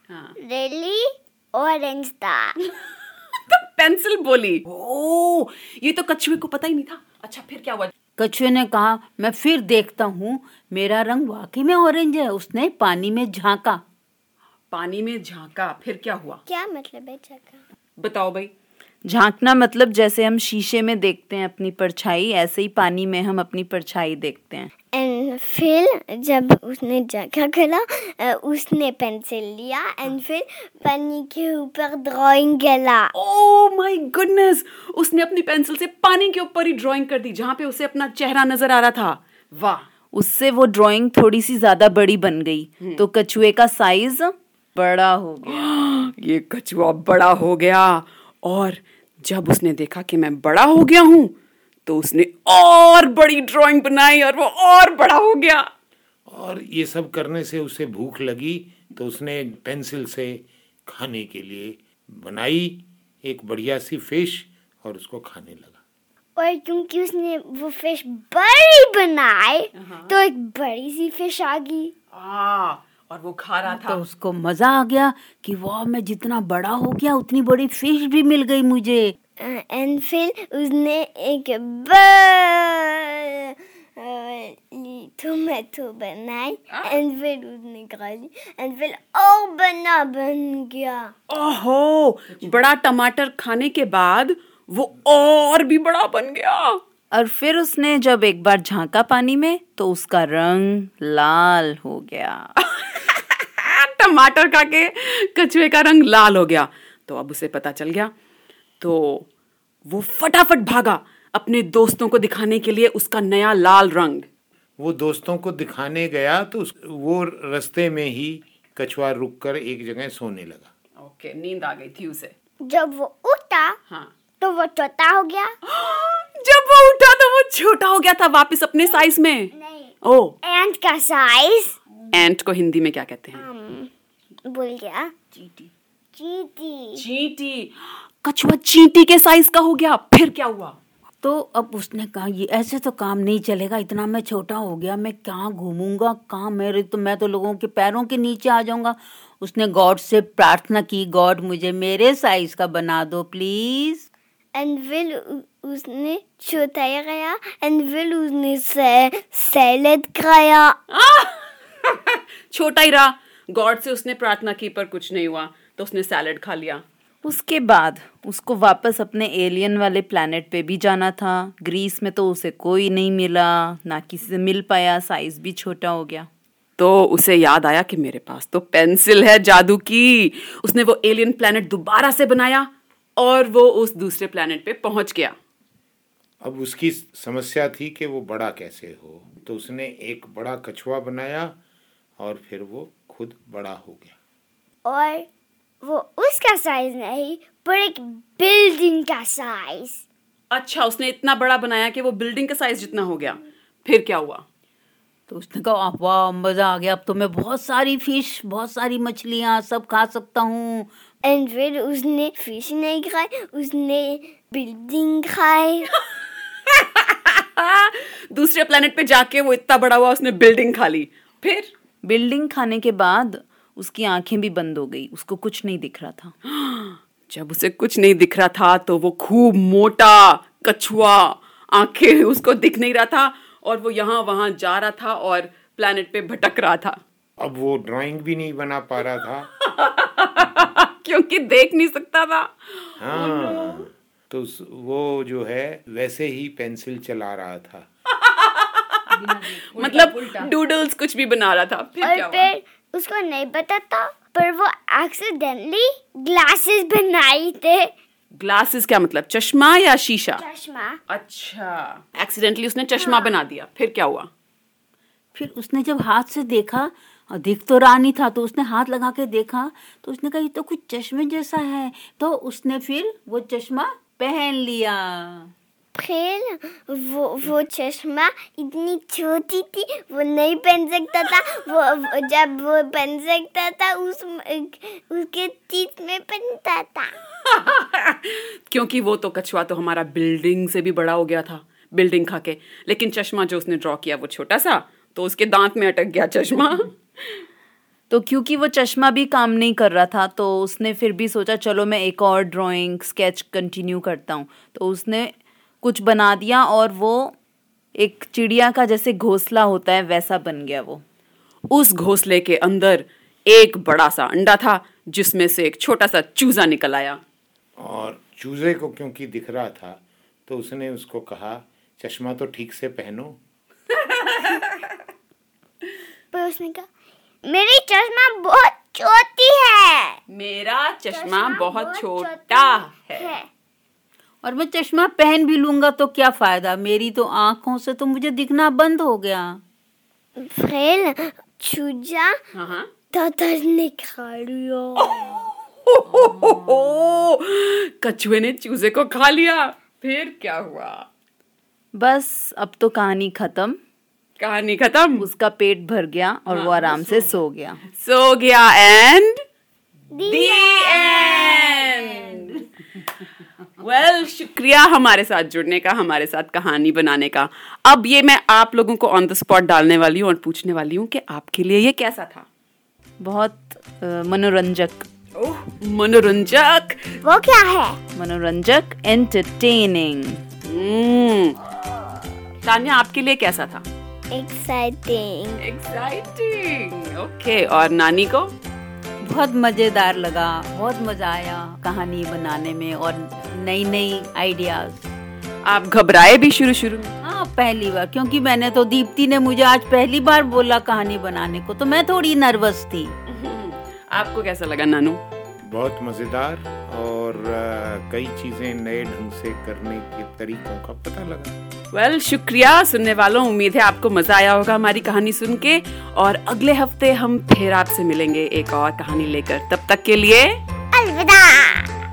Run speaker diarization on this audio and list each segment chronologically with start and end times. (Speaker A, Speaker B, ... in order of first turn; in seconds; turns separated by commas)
Speaker A: 0.1-0.4, Speaker B: 0.4-2.7, Speaker A: 3.5-7.9, Speaker C: 8.2-13.8, Speaker A: 14.7-16.4, Speaker B: 16.5-17.6, Speaker A: 18.0-18.5, Speaker D: 19.1-24.7, Speaker B: 24.9-33.1, Speaker A: 33.1-39.9, Speaker D: 40.1-45.7, Speaker A: 45.5-51.3, Speaker A: 51.9-55.7, Speaker E: 56.3-65.8, Speaker B: 66.4-71.9, Speaker A: 69.8-70.2, Speaker A: 72.1-74.0, Speaker C: 73.7-79.1, Speaker B: 79.4-91.1, Speaker A: 86.7-87.0, Speaker A: 91.3-96.8, Speaker D: 97.1-102.5, Speaker A: 102.6-108.1, Speaker A: 108.8-109.3, Speaker A: 109.9-114.3, Speaker E: 114.8-120.7, Speaker A: 121.0-122.3, Speaker B: 122.7-123.8, Speaker B: 124.4-125.5, Speaker A: 125.7-130.4, Speaker B: 129.6-129.9, Speaker B: 130.4-131.8, Speaker A: 132.1-133.5, Speaker B: 133.3-133.9, Speaker B: 134.4-135.1, Speaker C: 135.3-135.7, Speaker B: 136.2-137.0, Speaker A: 136.9-140.8, Speaker C: 141.2-154.1, Speaker B: 154.6-160.8, Speaker A: 160.9-166.8, Speaker D: 167.2-176.3, Speaker A: 176.8-185.4, Speaker E: 186.4-191.6, Speaker E: 192.2-194.2, Speaker B: 194.8-195.3, Speaker B: 195.8-200.0, Speaker A: 200.5-204.4, Speaker C: 205.3-210.9, Speaker B: 211.2-215.9, Speaker A: 216.7-221.7, Speaker D: 222.0-226.3, Speaker A: 226.5-237.0, Speaker E: 237.4-239.5, Speaker A: 239.6-243.8, Speaker E: 243.0-247.9, Speaker A: 248.2-249.0, Speaker C: 249.1-250.5, Speaker A: 249.8-252.5, Speaker B: 252.0-257.9, Speaker A: 258.4-260.4, Speaker B: 260.4-261.0, Speaker A: 261.1-264.3, Speaker B: 262.9-263.4, Speaker C: 265.4-275.5, Speaker B: 275.9-287.1, Speaker A: 287.5-296.9, Speaker D: 298.1-307.4, Speaker D: 308.0-311.0, Speaker A: 311.7-317.2, Speaker E: 317.8-323.4, Speaker A: 324.1-324.9, Speaker B: 326.3-326.9, Speaker B: 327.4-330.2, Speaker A: 330.3-333.4, Speaker B: 331.1-333.5, Speaker C: 334.4-339.6, Speaker B: 340.4-342.4, Speaker A: 342.5-342.9, Speaker B: 343.1-345.5, Speaker A: 345.9-351.1, Speaker D: 351.9-353.8, Speaker A: 354.4-355.3, Speaker D: 355.2-357.8, Speaker A: 356.5-357.4, Speaker A: 357.9-359.4, Speaker B: 360.1-362.0, Speaker A: 360.2-362.7, Speaker A: 363.8-372.5, Speaker D: 373.2-375.1, Speaker A: 375.4-377.2, Speaker B: 377.2-378.0, Speaker D: 378.2-380.4, Speaker A: 380.6-381.6, Speaker A: 382.6-383.9, Speaker B: 384.3-385.6, Speaker A: 385.6-388.6, Speaker C: 389.2-395.1, Speaker A: 395.6-397.1, Speaker C: 397.2-403.1, Speaker A: 403.3-405.2, Speaker E: 405.6-411.6, Speaker A: 411.9-420.6, Speaker B: 420.9-421.9